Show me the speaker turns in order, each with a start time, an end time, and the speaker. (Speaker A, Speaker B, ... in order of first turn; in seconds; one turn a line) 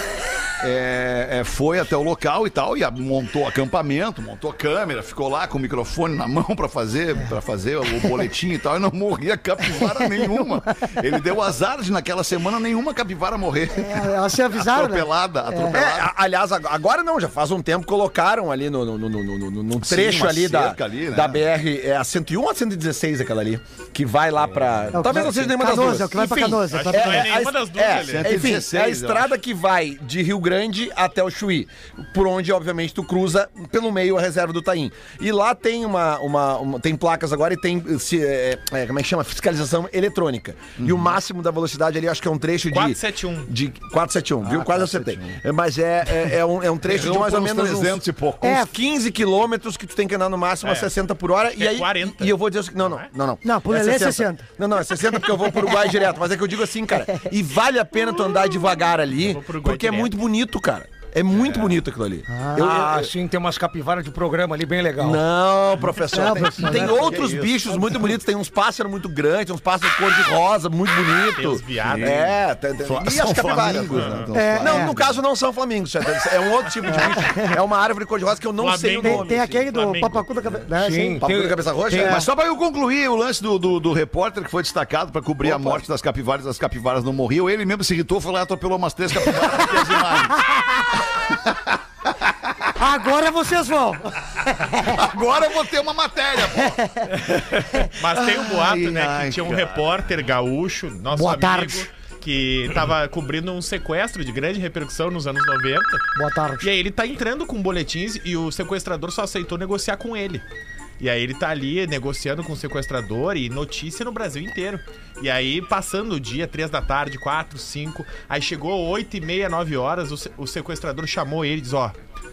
Speaker A: 0.6-16.1
Speaker B: 13.7-15.8
Speaker C: 15.7-63.1
Speaker A: 19.8-21.4
Speaker A: 24.9-25.3
Speaker B: 24.9-27.3
Speaker D: 26.2-28.6
Speaker A: 27.9-29.4
Speaker A: 40.8-41.2
Speaker D: 42.7-43.5
Speaker A: 44.4-45.4
Speaker A: 46.8-48.7
Speaker B: 48.4-48.7
Speaker D: 50.6-50.9
Speaker D: 51.5-53.1
Speaker B: 53.4-54.5
Speaker D: 59.2-60.1
Speaker A: 61.3-61.8
Speaker B: 62.3-62.7
Speaker E: 62.5-65.2
Speaker C: 65.0-79.3
Speaker B: 66.1-67.2
Speaker A: 66.6-68.2
Speaker D: 71.3-72.2
Speaker A: 71.8-75.2
Speaker D: 73.9-74.3
Speaker B: 74.3-74.9
Speaker B: 76.9-77.5
Speaker D: 78.6-80.2
Speaker B: 79.0-81.2
Speaker E: 80.8-82.2
Speaker C: 81.2-82.2
Speaker B: 81.9-82.2
Speaker A: 82.0-91.5
Speaker C: 85.4-85.8
Speaker B: 92.8-95.0
Speaker A: 94.9-100.0
Speaker D: 97.9-106.1
Speaker B: 101.1-101.8
Speaker B: 106.1-106.7
Speaker D: 106.6-110.4
Speaker D: 111.0-122.0